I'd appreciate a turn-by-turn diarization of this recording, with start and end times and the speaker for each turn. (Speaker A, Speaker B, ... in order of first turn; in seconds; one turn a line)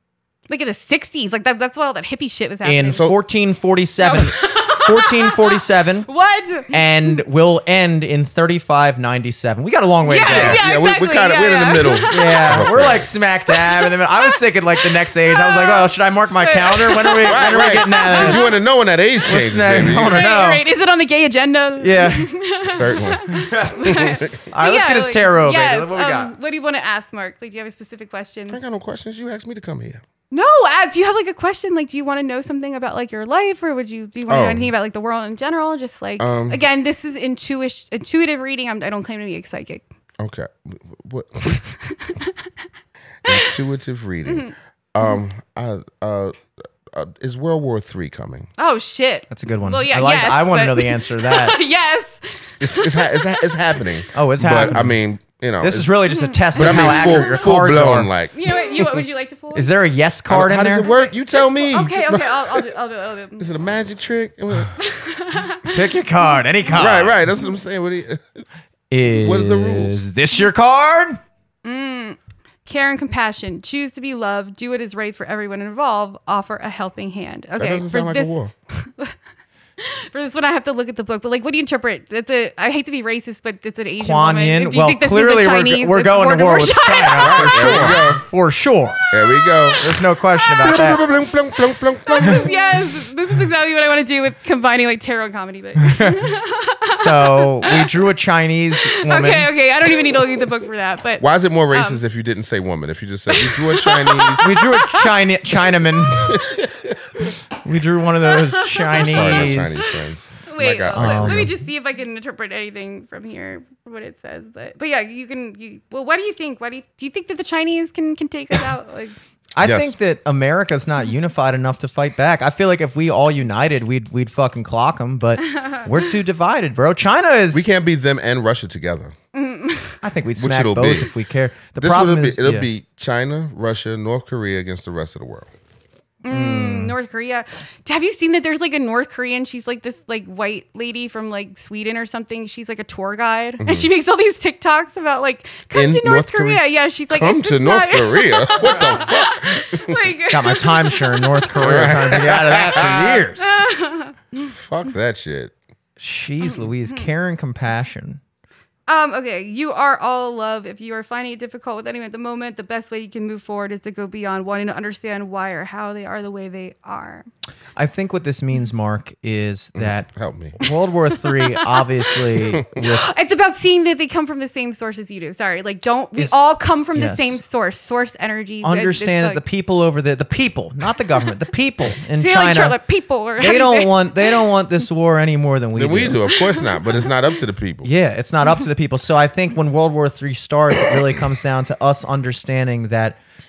Speaker A: 0.5-3.1
Speaker B: 2.6-6.1
Speaker A: 4.0-7.2
Speaker B: 6.7-10.6
Speaker A: 10.0-12.7
Speaker C: 10.3-13.1
Speaker B: 12.1-18.4
Speaker A: 13.5-18.6
Speaker C: 17.2-20.2
Speaker B: 19.2-20.6
Speaker A: 19.9-28.6
Speaker B: 21.8-22.3
Speaker C: 22.6-23.3
Speaker B: 23.3-26.3
Speaker C: 24.0-24.3
Speaker C: 28.5-30.0
Speaker A: 30.3-39.8
Speaker C: 34.3-34.7
Speaker C: 36.2-36.6
Speaker C: 40.2-41.5
Speaker A: 41.4-42.3
Speaker C: 43.2-48.5
Speaker A: 43.3-43.5
Speaker A: 44.2-45.2
Speaker A: 48.6-54.0
Speaker B: 49.3-51.6
Speaker C: 52.6-55.9
Speaker B: 54.1-55.0
Speaker B: 55.6-58.1
Speaker A: 56.1-57.3
Speaker C: 56.5-59.0
Speaker A: 58.3-59.7
Speaker B: 59.5-60.9
Speaker C: 60.3-62.7
Speaker A: 60.8-63.5
Speaker C: 63.4-64.7
Speaker A: 64.8-66.4
Speaker B: 65.7-67.2
Speaker C: 66.7-68.5
Speaker B: 68.9-71.2
Speaker C: 69.0-70.0
Speaker A: 71.6-79.1
Speaker C: 77.6-78.5
Speaker A: 79.8-88.1
Speaker B: 84.0-89.0
Speaker C: 87.2-88.2
Speaker A: 89.1-91.0
Speaker C: 89.1-89.8
Speaker B: 89.7-91.0
Speaker C: 90.6-92.5
Speaker A: 92.1-97.9
Speaker B: 96.9-99.5
Speaker A: 98.9-102.0
Speaker C: 101.2-104.5
Speaker A: 103.3-105.1
Speaker B: 104.4-106.4
Speaker A: 106.3-106.7
Speaker C: 106.3-106.9
Speaker B: 107.6-109.8
Speaker A: 108.2-119.1
Speaker C: 108.9-111.5
Speaker B: 110.9-111.6
Speaker B: 119.5-127.7
Speaker C: 119.6-119.9
Speaker A: 125.5-125.9
Speaker C: 127.5-129.1
Speaker A: 129.3-130.0
Speaker B: 130.0-132.7
Speaker C: 130.4-131.1
Speaker C: 131.8-135.5
Speaker A: 136.2-151.5
Speaker B: 136.3-136.9
Speaker C: 143.6-143.9
Speaker C: 145.7-150.0
Speaker B: 150.3-153.6
Speaker C: 151.6-153.3
Speaker A: 153.4-154.5
Speaker C: 154.4-155.5
Speaker B: 156.0-158.2
Speaker A: 156.4-157.1
Speaker A: 158.9-167.3
Speaker B: 167.8-173.1
Speaker C: 169.8-170.6
Speaker A: 171.1-179.4
Speaker B: 176.9-177.4
Speaker B: 178.6-182.8
Speaker A: 182.2-184.4
Speaker B: 183.4-186.2
Speaker C: 185.7-187.9
Speaker A: 186.2-187.1
Speaker B: 187.8-193.2